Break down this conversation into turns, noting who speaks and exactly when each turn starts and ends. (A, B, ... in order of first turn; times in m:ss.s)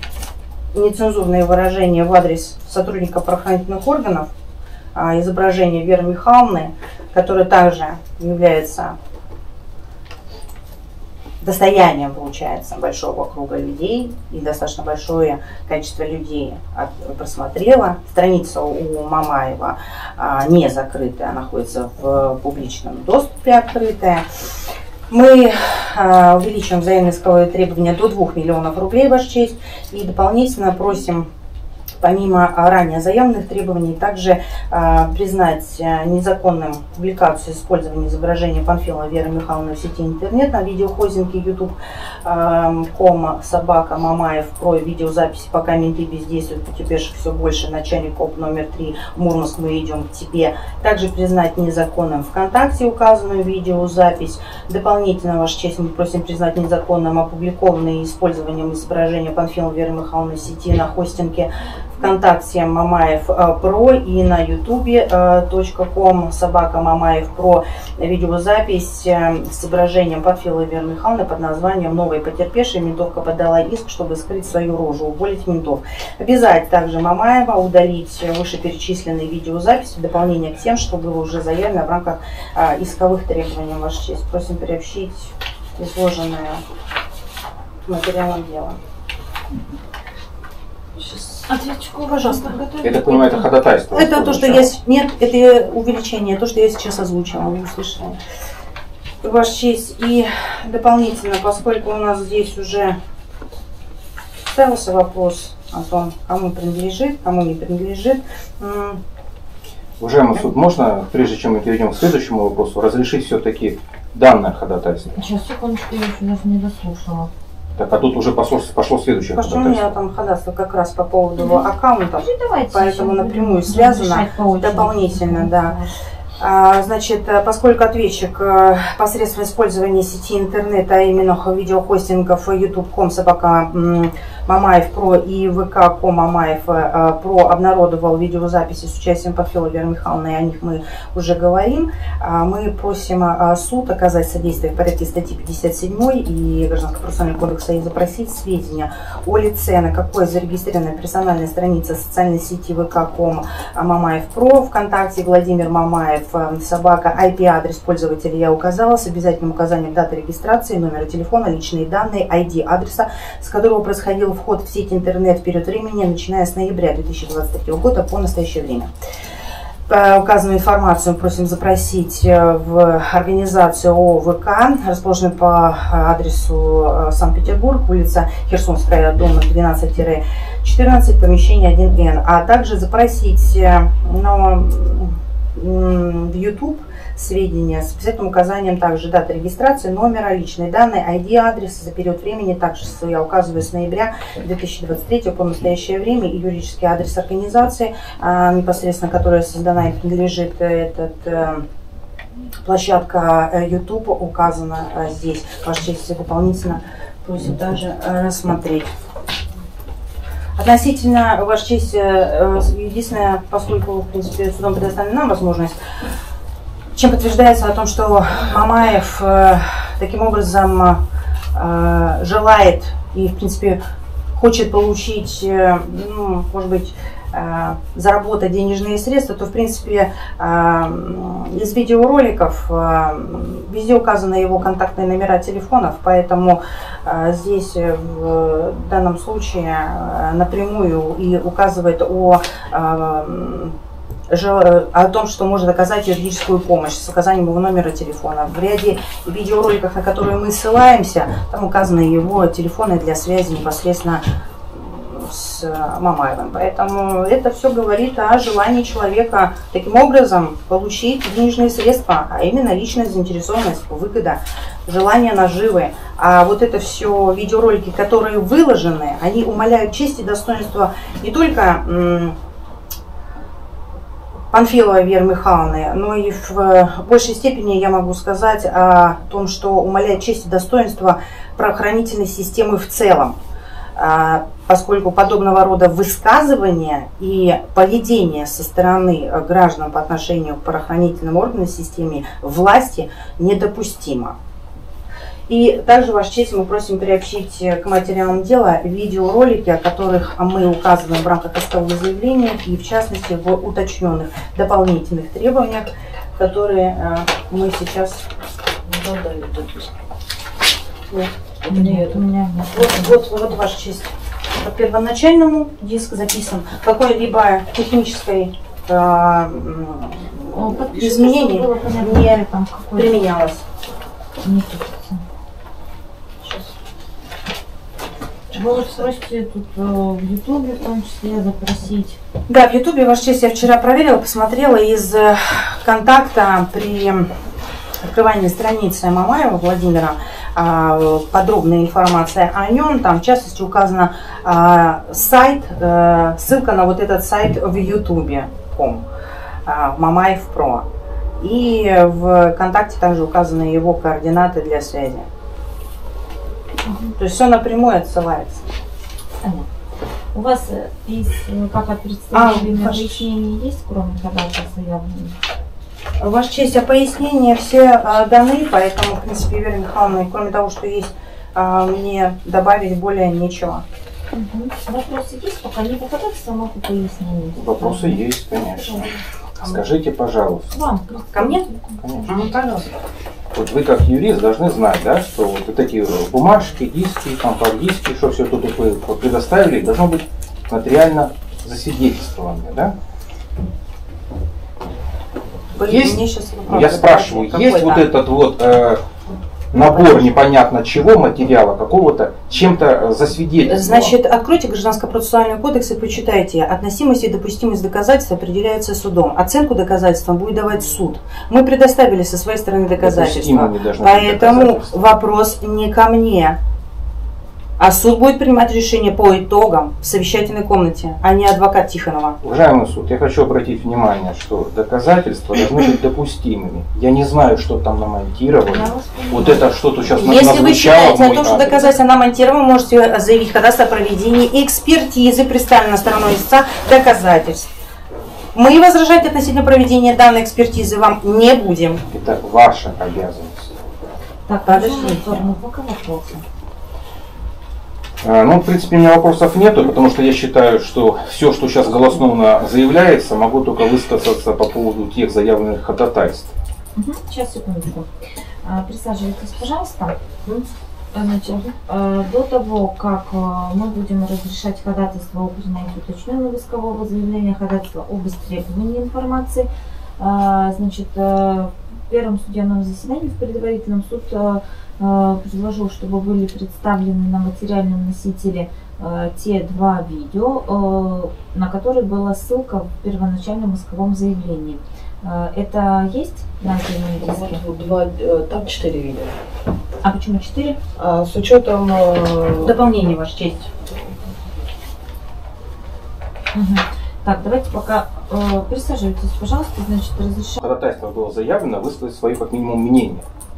0:00.7-0:04.3 A
0:05.0-0:09.0 A
0:11.4-0:24.3 A
0:25.1-0:31.3 A
0:32.0-1:26.6 A
1:27.9-1:28.8 A
1:31.0-1:33.5 B
1:32.1-1:32.6 A
1:32.8-1:34.8 C
1:33.9-1:38.2 A
1:39.2-1:43.0 A
1:44.5-1:49.0 A
1:50.0-1:55.3 C
1:55.2-1:57.3 B
1:57.8-2:00.0 C
1:59.4-2:05.8 A
2:01.4-2:01.7 B
2:02.2-2:05.9 B
2:06.4-2:48.9 A
2:49.9-3:21.6 A
3:22.6-3:28.9 A
3:30.6-3:35.8 A
3:37.0-3:41.0 A
3:41.6-3:43.8 A
3:44.4-4:03.8 A
4:04.3-4:32.4 A
4:34.5-4:43.4 A
4:44.0-4:54.4 A
4:55.5-5:08.3 A
5:08.9-5:09.9 D
5:11.1-5:12.2 D
5:11.7-5:13.1 B
5:12.6-5:22.4 A
5:20.5-5:23.2 B
5:22.9-5:23.6 A
5:24.4-5:25.2 B
5:28.5-5:32.2 B
5:32.5-5:37.3 A
5:38.0-5:49.0 A
5:49.7-5:50.9 A
5:51.4-5:55.3 A
5:56.9-5:57.2 B
5:57.2-5:58.7 A
5:59.4-5:59.7 B
6:00.3-6:05.4 B
6:02.3-6:03.2 A
6:06.2-6:13.8 A
6:14.3-6:19.2 B
6:17.6-6:20.7 C
6:20.7-6:22.5 B
6:21.3-6:21.7 A
6:22.0-6:22.3 C
6:22.3-6:22.9 A
6:23.5-6:33.0 C
6:35.8-6:38.1 A
6:35.9-6:39.0 C
6:39.7-6:44.2 C
6:39.7-6:40.4 A
6:43.7-6:56.6 A
6:53.0-6:55.0 C
6:57.8-7:02.4 A
7:02.4-7:11.9 C
7:08.7-7:10.3 B
7:10.2-7:17.7 A
7:18.5-7:22.0 A
7:22.1-7:23.8 C
7:24.5-7:26.4 B
7:24.7-7:25.5 A
7:28.2-7:36.5 C
7:37.0-7:38.1 B
7:38.6-7:40.2 B
7:41.1-8:07.6 B
8:07.2-8:09.4 D
8:10.0-8:10.8 B
8:11.0-8:12.8 D
8:12.6-8:13.7 A
8:16.5-8:20.6 B
8:20.6-8:23.2 C